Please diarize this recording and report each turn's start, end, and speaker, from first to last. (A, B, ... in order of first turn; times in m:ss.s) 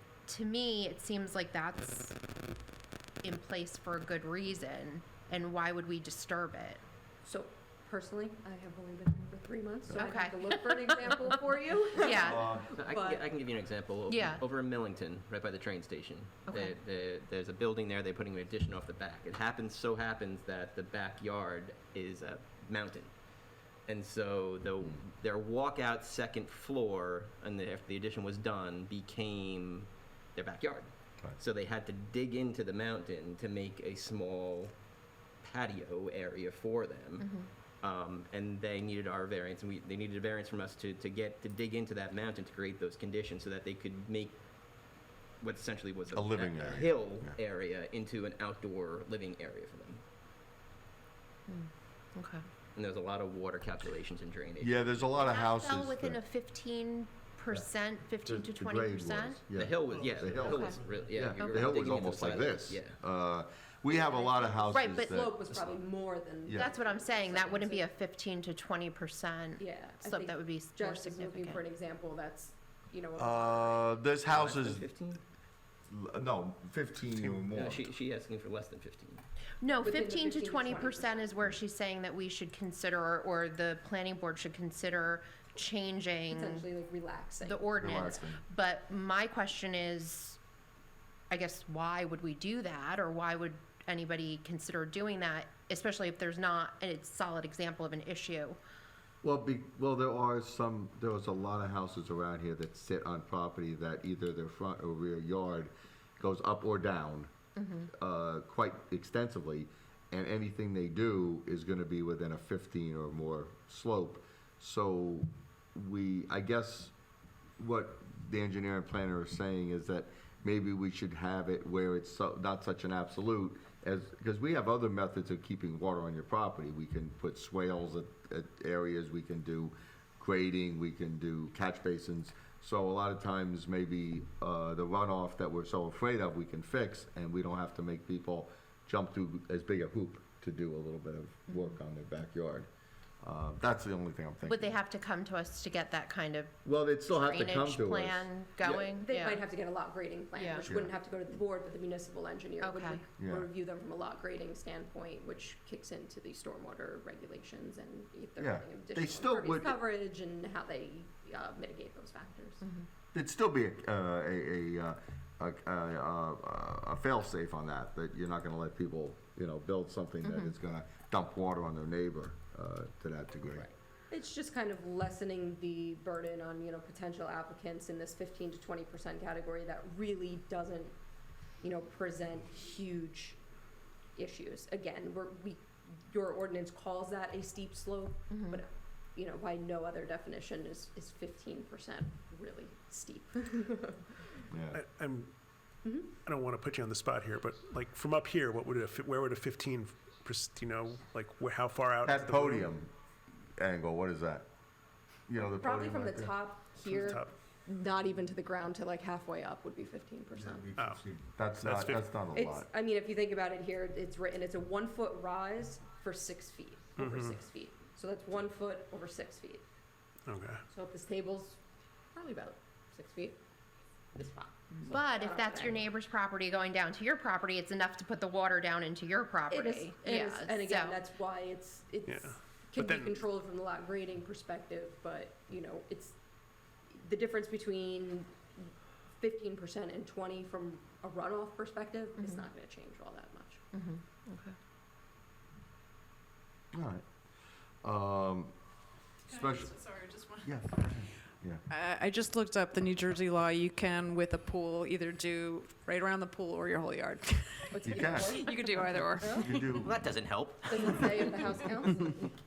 0:00.3-0:02.2 A
0:03.2-0:06.8 A
0:07.2-0:13.3 B
0:09.9-0:11.3 A
0:12.0-0:12.5 A
0:12.2-0:12.8 C
0:12.8-0:23.1 D
0:14.1-0:14.4 A
0:16.5-0:16.8 A
0:23.9-0:34.7 D
0:35.4-0:37.3 D
0:37.2-0:37.5 A
0:37.8-0:44.4 D
0:45.4-0:50.0 D
0:46.1-0:47.4 C
0:51.5-0:52.4 A
0:52.8-0:55.1 D
0:54.6-0:56.2 C
0:55.2-0:59.4 A
0:58.2-1:05.7 C
0:59.6-1:03.0 D
1:00.0-1:00.8 E
1:00.4-1:00.8 A
1:01.4-1:01.8 A
1:03.9-1:07.9 B
1:04.7-1:05.3 A
1:06.4-1:06.7 C
1:06.6-1:11.6 A
1:09.6-1:14.0 B
1:13.2-1:14.9 C
1:14.3-1:15.2 D
1:15.9-1:17.9 C
1:17.1-1:17.4 E
1:17.5-1:19.2 D
1:19.6-1:26.7 A
1:19.8-1:21.5 B
1:26.3-1:27.7 B
1:27.4-1:30.4 A
1:27.8-1:28.4 C
1:31.3-1:38.6 A
1:39.2-1:47.3 C
1:47.6-1:47.9 A
1:47.9-1:56.9 C
1:57.6-2:22.7 C
2:21.5-2:21.8 A
2:23.2-2:24.8 C
2:24.4-2:29.4 A
2:26.6-2:28.8 C
2:28.7-2:42.6 B
2:30.4-2:30.7 A
2:30.6-2:30.9 C
2:32.6-2:33.0 A
2:33.2-2:33.5 C
2:38.4-2:39.8 C
2:42.6-2:42.9 A
2:43.1-2:53.7 C
2:50.2-2:50.6 A
2:54.1-3:01.0 B
3:01.6-3:03.4 B
3:04.1-3:14.4 B
3:08.3-3:08.6 A
3:14.5-3:14.8 C
3:14.7-3:15.3 E
3:15.8-3:16.2 B
3:16.2-3:22.7 E
3:22.0-3:22.9 C
3:23.6-3:24.5 C
3:25.3-3:26.4 C
3:25.6-3:30.7 B
3:26.9-3:27.3 E
3:30.3-3:32.7 C
3:30.8-3:32.2 E
3:32.3-3:39.6 B
3:37.0-3:37.4 E
3:40.2-3:40.6 E
3:40.7-3:41.6 B
3:42.1-3:43.4 B
3:44.1-3:45.8 B
3:44.8-3:51.0 A
3:49.5-3:56.2 B
3:52.1-3:53.2 E
3:56.9-4:03.6 B
4:02.2-4:02.5 A
4:03.7-4:04.6 A
4:06.7-4:07.0 C
4:07.8-4:08.5 C
4:09.3-4:09.8 C
4:09.3-4:10.6 F
4:10.4-4:11.6 C
4:11.7-4:19.8 F
4:17.7-4:19.5 B
4:17.8-4:18.5 C
4:19.4-4:20.1 C
4:19.6-4:21.1 D
4:20.7-4:22.3 B